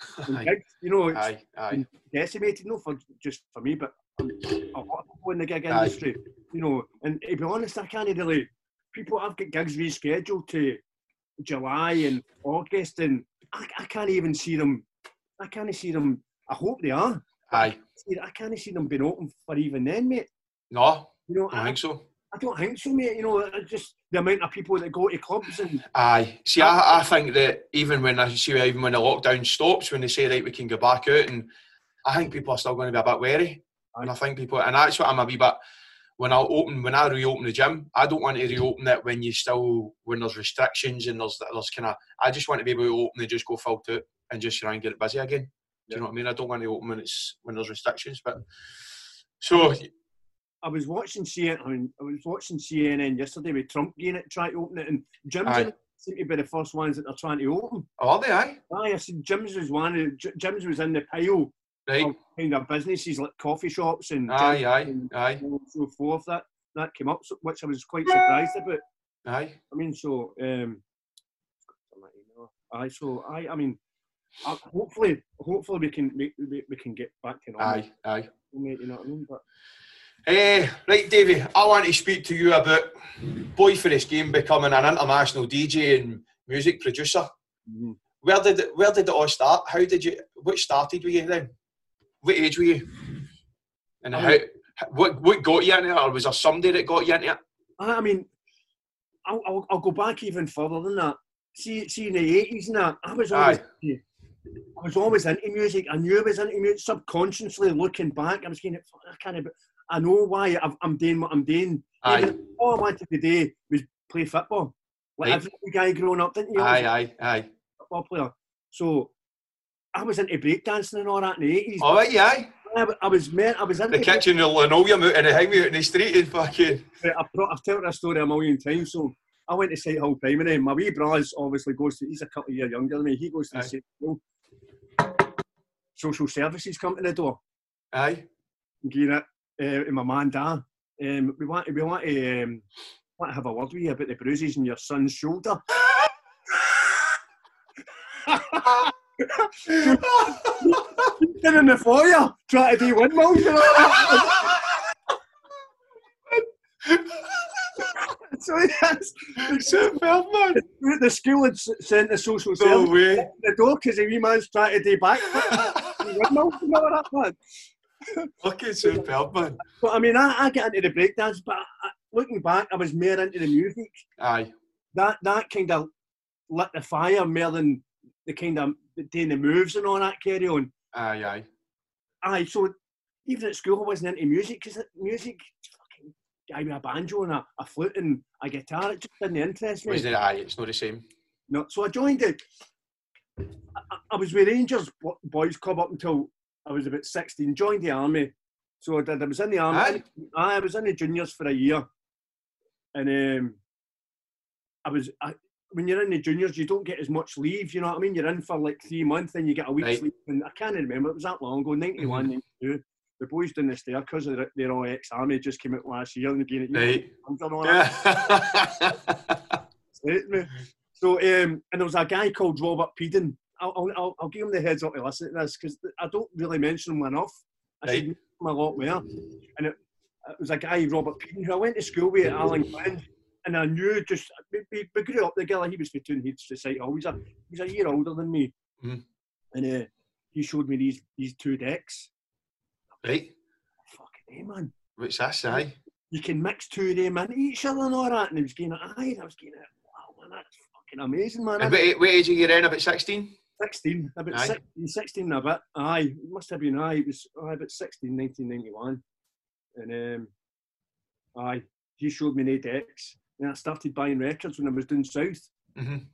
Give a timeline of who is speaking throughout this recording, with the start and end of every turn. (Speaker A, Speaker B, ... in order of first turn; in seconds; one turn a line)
Speaker A: 0.1-0.5
Speaker B: 0.2-10.8
Speaker A: 1.1-1.8
Speaker A: 5.7-6.0
Speaker B: 11.4-14.8
Speaker B: 15.4-20.3
Speaker A: 17.5-17.8
Speaker A: 20.7-22.0
Speaker B: 21.3-21.8
Speaker B: 22.3-25.8
Speaker A: 25.9-31.5
Speaker B: 26.6-26.9
Speaker A: 32.0-35.6
Speaker A: 36.2-48.4
Speaker A: 49.4-49.9
Speaker B: 50.6-57.9
Speaker A: 55.4-55.7
Speaker A: 58.0-58.6
Speaker B: 58.7-68.8
Speaker A: 61.9-62.1
Speaker A: 64.3-65.4
Speaker A: 69.2-69.6
Speaker B: 69.7-70.8
Speaker B: 71.9-73.8
Speaker B: 74.4-77.8
Speaker A: 77.6-78.3
Speaker B: 78.4-79.4
Speaker A: 80.2-87.3
Speaker B: 87.7-88.0
Speaker A: 88.2-91.5
Speaker A: 92.2-93.0
Speaker A: 94.0-97.4
Speaker B: 94.1-94.4
Speaker B: 97.8-98.3
Speaker B: 99.2-104.0
Speaker A: 103.3-103.6
Speaker B: 104.8-116.9
Speaker A: 112.0-112.3
Speaker A: 116.5-117.5
Speaker B: 117.9-119.1
Speaker B: 119.9-122.0
Speaker A: 121.8-122.5
Speaker B: 122.7-124.2
Speaker A: 123.9-126.8
Speaker B: 127.0-134.2
Speaker B: 135.9-137.4
Speaker A: 137.9-138.2
Speaker B: 138.8-142.6
Speaker B: 143.2-145.6
Speaker B: 148.2-154.6
Speaker A: 149.7-151.1
Speaker A: 153.7-154.6
Speaker A: 156.3-157.8
Speaker B: 158.0-159.9
Speaker A: 159.4-160.6
Speaker B: 160.5-167.4
Speaker A: 162.6-163.3
Speaker A: 165.5-166.3
Speaker A: 168.4-169.6
Speaker B: 168.8-169.1
Speaker B: 169.6-174.0
Speaker A: 174.2-174.5
Speaker B: 174.9-175.9
Speaker B: 176.5-180.7
Speaker A: 180.9-181.4
Speaker B: 182.2-182.7
Speaker B: 183.2-190.1
Speaker A: 189.9-191.0
Speaker B: 191.5-192.4
Speaker B: 193.9-201.8
Speaker A: 199.7-200.0
Speaker B: 202.9-203.6
Speaker B: 204.8-217.9
Speaker A: 212.0-212.3
Speaker A: 216.7-217.1
Speaker A: 217.6-219.6
Speaker B: 220.0-238.5
Speaker B: 239.5-242.1
Speaker A: 243.0-243.3
Speaker B: 243.9-244.7
Speaker A: 245.0-245.7
Speaker B: 246.1-251.9
Speaker A: 251.6-253.3
Speaker B: 253.6-259.0
Speaker B: 259.8-260.3
Speaker B: 261.4-265.5
Speaker A: 265.8-266.1